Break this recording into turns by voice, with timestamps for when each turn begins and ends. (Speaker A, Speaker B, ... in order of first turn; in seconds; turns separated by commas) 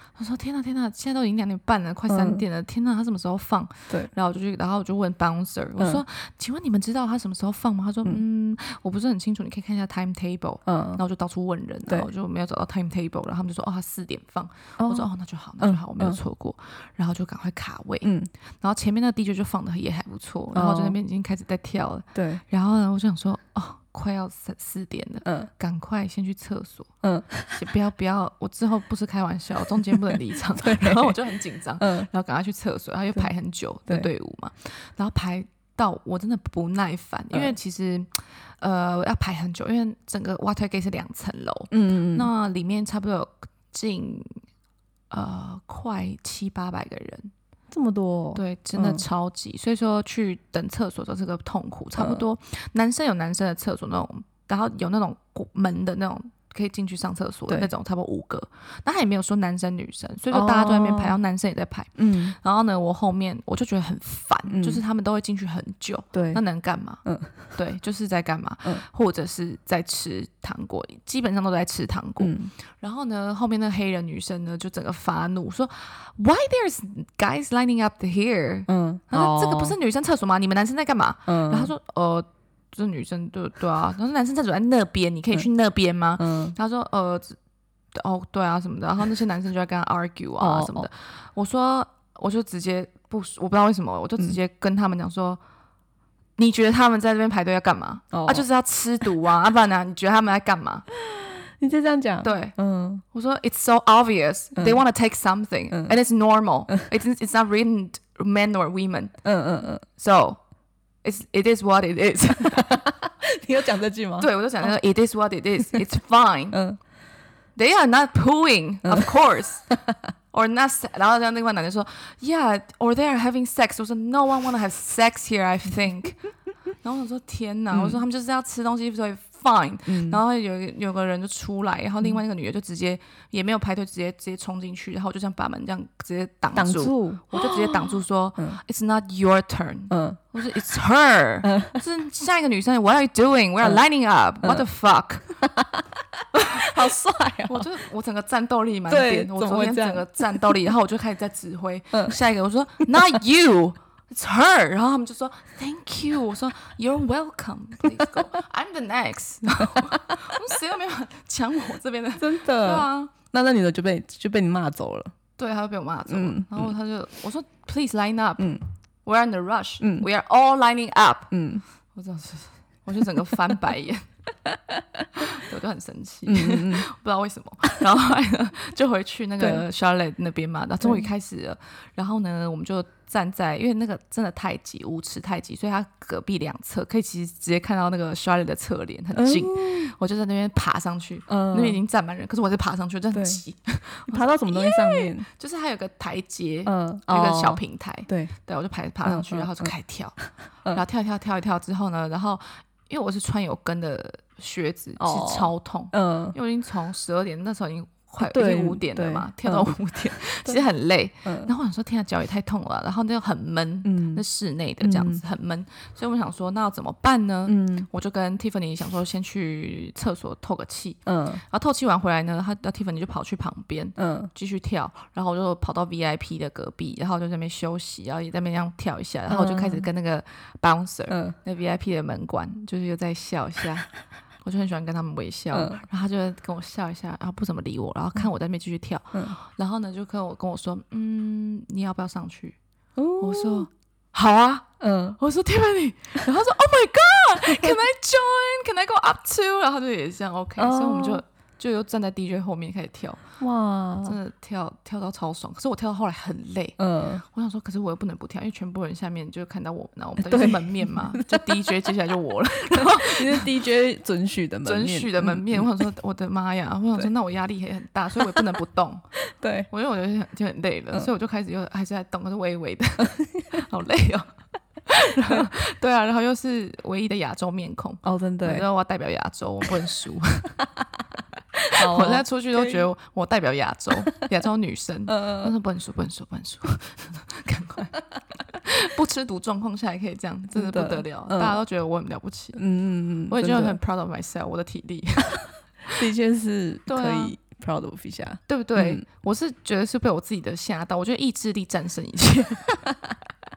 Speaker A: 0.2-26.9, Speaker B: 2.1-2.4, Speaker B: 10.7-11.0, Speaker B: 14.8-15.1, Speaker B: 15.6-16.2, Speaker B: 18.0-18.3, Speaker B: 20.5-21.0, Speaker B: 22.1-22.4, Speaker B: 25.2-25.5, Speaker B: 27.0-27.6, Speaker A: 27.5-44.4, Speaker B: 29.9-31.2, Speaker B: 31.8-32.1, Speaker B: 41.7-42.3, Speaker A: 45.1-47.3, Speaker B: 47.7-49.0, Speaker A: 48.3-87.4, Speaker B: 52.0-52.2, Speaker B: 60.3-61.2, Speaker B: 62.0-62.4, Speaker B: 64.5-64.8, Speaker B: 66.1-66.4, Speaker B: 67.0-67.5, Speaker B: 72.2-72.5, Speaker B: 78.7-79.8, Speaker B: 81.3-81.7, Speaker B: 86.2-86.5, Speaker A: 87.9-95.4, Speaker B: 90.4-90.9, Speaker A: 96.4-100.9, Speaker B: 98.1-98.5, Speaker B: 101.0-103.0, Speaker A: 102.2-102.5, Speaker A: 103.1-109.2, Speaker B: 104.5-104.8, Speaker B: 109.2-109.8, Speaker A: 110.0-110.4, Speaker A: 111.0-112.8, Speaker B: 112.5-114.7, Speaker A: 114.2-116.6, Speaker B: 116.5-116.8, Speaker A: 117.5-119.7, Speaker B: 118.8-119.1, Speaker A: 120.3-126.3, Speaker A: 126.8-145.2, Speaker B: 127.7-128.0, Speaker B: 129.9-130.2, Speaker B: 136.6-138.6, Speaker B: 139.9-140.2, Speaker B: 141.4-141.8, Speaker B: 145.4-147.7, Speaker A: 146.3-146.7, Speaker A: 147.5-163.1, Speaker B: 148.9-150.6, Speaker B: 159.6-160.3, Speaker B: 162.2-165.1, Speaker A: 165.4-171.3, Speaker B: 166.1-166.7, Speaker B: 169.8-170.1, Speaker B: 171.3-171.6, Speaker A: 171.9-174.1, Speaker B: 174.7-175.0, Speaker A: 175.2-200.2, Speaker B: 176.2-176.9, Speaker B: 179.4-179.6, Speaker B: 189.1-189.9, Speaker B: 191.3-191.8, Speaker B: 193.1-193.4, Speaker B: 194.1-195.3, Speaker B: 196.7-198.3, Speaker B: 199.0-199.7, Speaker A: 200.7-233.9, Speaker B: 205.0-206.3, Speaker B: 208.2-209.7, Speaker B: 211.2-211.5, Speaker B: 213.8-214.2, Speaker B: 214.8-215.2, Speaker B: 217.5-217.9, Speaker B: 221.1-221.4, Speaker B: 224.0-224.3, Speaker B: 229.3-229.8, Speaker B: 231.1-231.3, Speaker A: 234.4-242.6, Speaker B: 235.5-235.8, Speaker B: 242.9-243.7, Speaker A: 243.2-253.2, Speaker B: 244.8-245.2, Speaker B: 247.5-247.8, Speaker B: 250.6-251.2, Speaker B: 253.4-254.2, Speaker A: 254.0-263.5, Speaker B: 256.8-257.2, Speaker B: 260.2-261.8, Speaker B: 262.7-265.7, Speaker A: 264.6-269.0, Speaker B: 268.2-268.5, Speaker B: 269.2-269.7, Speaker A: 269.7-274.3, Speaker A: 274.9-280.6, Speaker B: 278.0-278.6, Speaker B: 281.7-282.8, Speaker A: 281.8-292.6, Speaker B: 285.1-285.5, Speaker B: 290.5-291.6, Speaker B: 292.6-293.8, Speaker A: 293.3-295.9, Speaker B: 296.0-299.0, Speaker A: 296.9-297.3, Speaker A: 298.5-302.8